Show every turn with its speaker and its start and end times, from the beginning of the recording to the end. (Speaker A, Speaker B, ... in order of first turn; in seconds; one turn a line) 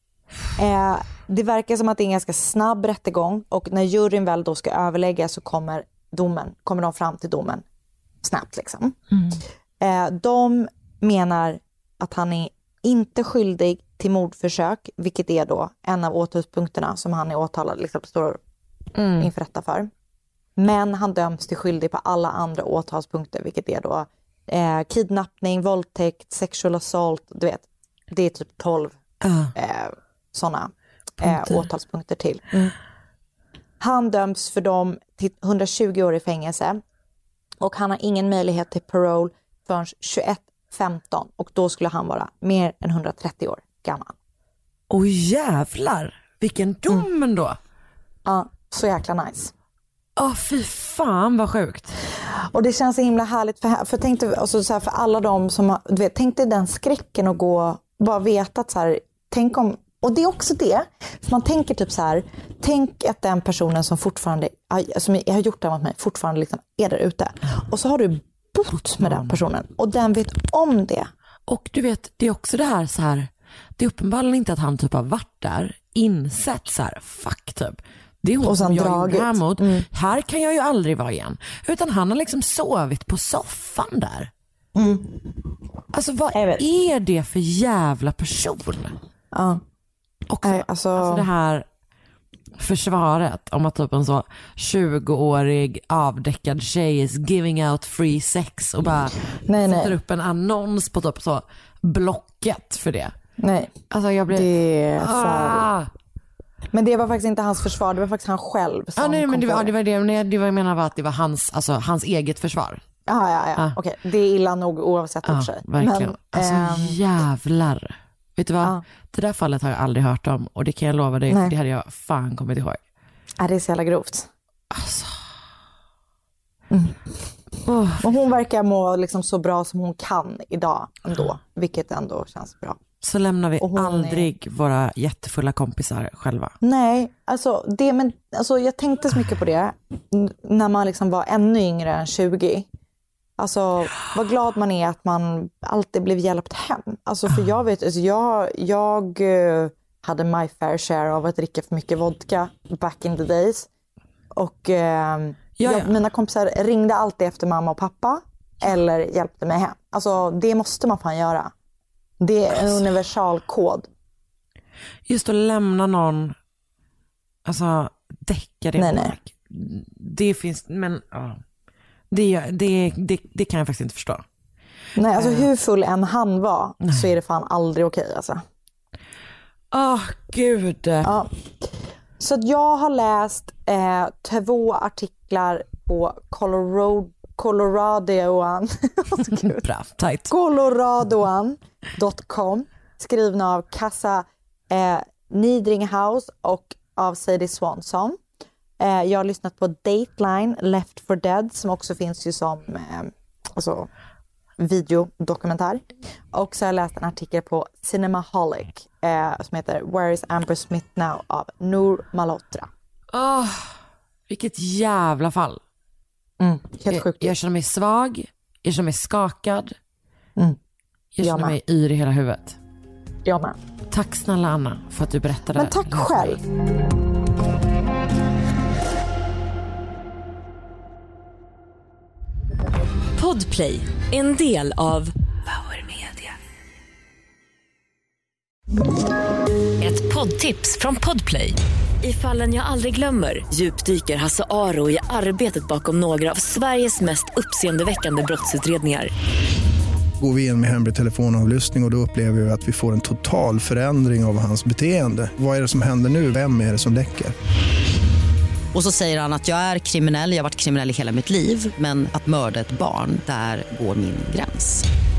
Speaker A: 0.6-7.6
Speaker A: 8.2-9.0
Speaker A: 9.8-18.4
Speaker B: 18.9-19.3
Speaker A: 19.2-19.9
Speaker A: 20.6-28.9
Speaker B: 29.2-29.5
Speaker A: 29.5-32.7
Speaker B: 31.2-31.5
Speaker A: 33.8-36.8
Speaker A: 37.6-44.1
Speaker B: 44.9-47.6
Speaker A: 48.2-49.5
Speaker B: 50.2-52.0
Speaker A: 52.3-71.1
Speaker B: 69.0-69.3
Speaker B: 71.5-84.3
Speaker A: 78.4-79.8
Speaker A: 84.7-85.2
Speaker B: 85.9-89.0
Speaker A: 86.3-86.6
Speaker A: 89.3-89.6
Speaker B: 90.3-91.7
Speaker A: 90.4-91.2
Speaker B: 92.6-103.1
Speaker A: 99.4-99.9
Speaker A: 103.4-105.7
Speaker B: 103.9-105.9
Speaker A: 106.7-109.7
Speaker B: 109.0-112.8
Speaker A: 113.1-117.0
Speaker B: 115.2-122.8
Speaker A: 121.3-121.5
Speaker A: 123.4-124.3
Speaker B: 124.7-125.2
Speaker A: 126.7-127.3
Speaker B: 127.6-128.1
Speaker A: 128.0-132.8
Speaker B: 133.0-136.5
Speaker A: 133.6-134.3
Speaker A: 136.6-142.7
Speaker A: 143.4-153.7
Speaker A: 154.3-161.5
Speaker B: 155.6-155.9
Speaker A: 162.2-163.9
Speaker B: 165.1-166.3
Speaker B: 167.4-171.4
Speaker A: 168.8-169.2
Speaker B: 172.1-174.2
Speaker A: 174.9-178.4
Speaker B: 175.2-175.5
Speaker B: 179.7-181.1
Speaker A: 181.0-189.7
Speaker B: 189.3-190.3
Speaker A: 190.3-198.2
Speaker A: 198.8-203.9
Speaker A: 204.6-212.7
Speaker B: 213.1-213.8
Speaker B: 214.3-215.6
Speaker A: 216.4-217.3
Speaker B: 216.9-219.8
Speaker B: 221.1-222.6
Speaker A: 221.2-221.6
Speaker A: 223.2-223.6
Speaker B: 223.9-226.4
Speaker A: 225.5-226.4
Speaker C: 233.2-236.3
Speaker C: 239.8-249.1
Speaker D: 250.2-257.3
Speaker E: 258.7-264.8